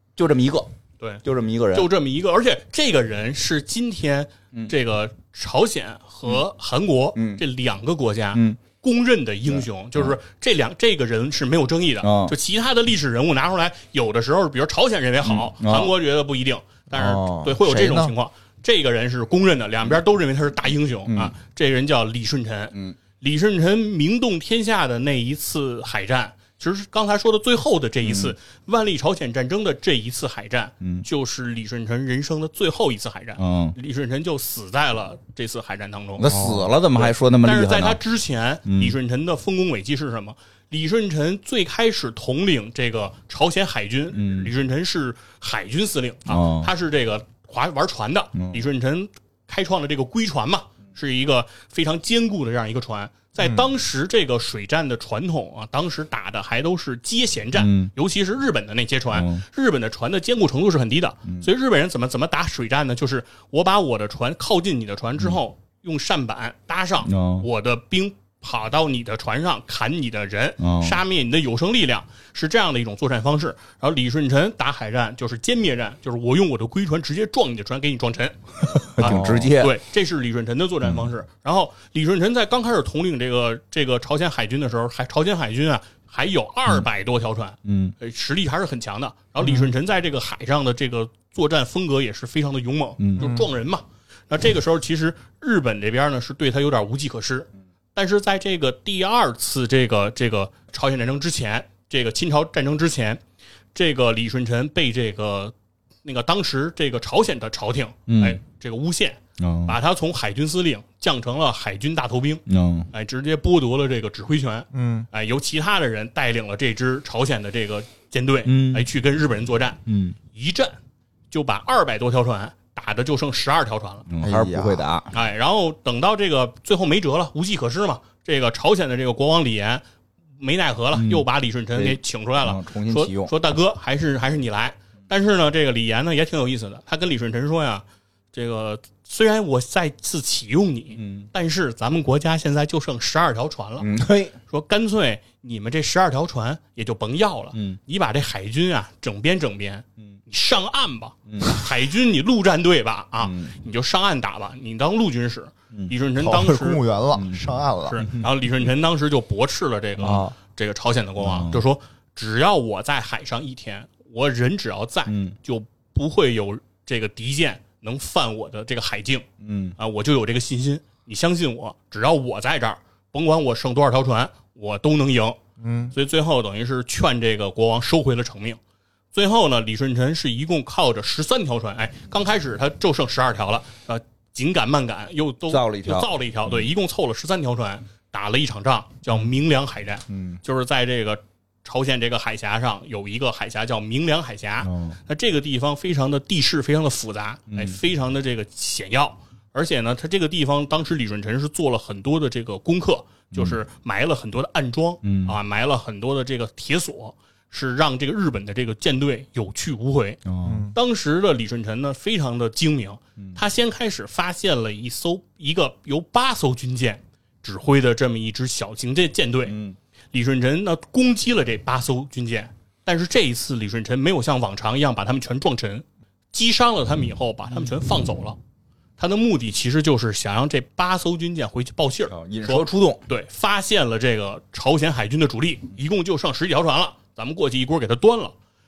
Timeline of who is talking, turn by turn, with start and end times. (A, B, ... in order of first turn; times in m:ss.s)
0:00.2-0:00.7 A
0:01.2-0:01.9 A
0:01.7-0:36.4 B
0:07.2-0:07.4 A
0:08.3-0:08.6 A
0:09.5-0:10.2 A
0:12.0-0:12.4 A
0:15.2-0:15.9 A
0:16.9-0:18.1 C
0:17.0-0:17.4 A
0:21.1-0:21.3 A
0:28.0-0:28.4 A
0:33.4-0:33.8 A
0:36.2-0:38.0 A
0:36.3-0:36.6 C
0:36.9-1:43.2 B
0:38.7-0:39.0 A
0:44.1-0:44.5 A
0:46.3-0:46.7 A
0:48.4-0:48.6 A
0:57.6-0:57.9 A
0:59.1-0:59.4 A
1:07.0-1:07.5 A
1:10.6-1:11.0 A
1:19.0-1:19.8 A
1:19.0-1:19.5 C
1:20.8-1:21.1 A
1:27.6-1:27.9 A
1:33.0-1:33.4 A
1:33.2-1:33.5 C
1:43.8-1:45.5 B
1:46.0-1:59.8 B
1:48.1-1:48.4 A
1:49.4-1:49.8 A
1:52.5-1:52.9 A
1:54.7-1:55.1 C
1:58.5-1:58.9 A
1:59.9-2:00.2 A
2:00.3-2:00.8 B
2:01.3-2:04.1 B
2:04.1-2:05.1 A
2:04.2-2:04.8 C
2:05.1-2:09.8 B
2:10.4-2:23.9 B
2:10.9-2:13.3 A
2:21.0-2:21.3 A
2:23.8-2:24.4 A
2:24.5-2:36.8 B
2:31.3-2:31.6 A
2:33.2-2:33.6 A
2:36.2-2:38.1 C
2:37.1-2:37.5 A
2:37.9-2:49.3 B
2:40.0-2:40.3 C
2:41.2-2:41.6 A
2:45.1-2:45.4 A
2:49.4-2:49.8 A
2:49.8-2:55.4 B
2:55.6-2:55.9 C
2:55.9-2:58.6 B
2:59.1-3:39.6 B
3:05.5-3:06.1 A
3:10.1-3:10.4 A
3:14.6-3:15.0 A
3:17.5-3:17.8 A
3:23.3-3:23.6 A
3:25.0-3:25.4 A
3:30.3-3:30.7 A
3:30.4-3:30.7 C
3:39.5-3:39.8 A
3:40.1-3:48.4 B
3:49.0-3:58.3 B
3:52.1-3:53.0 A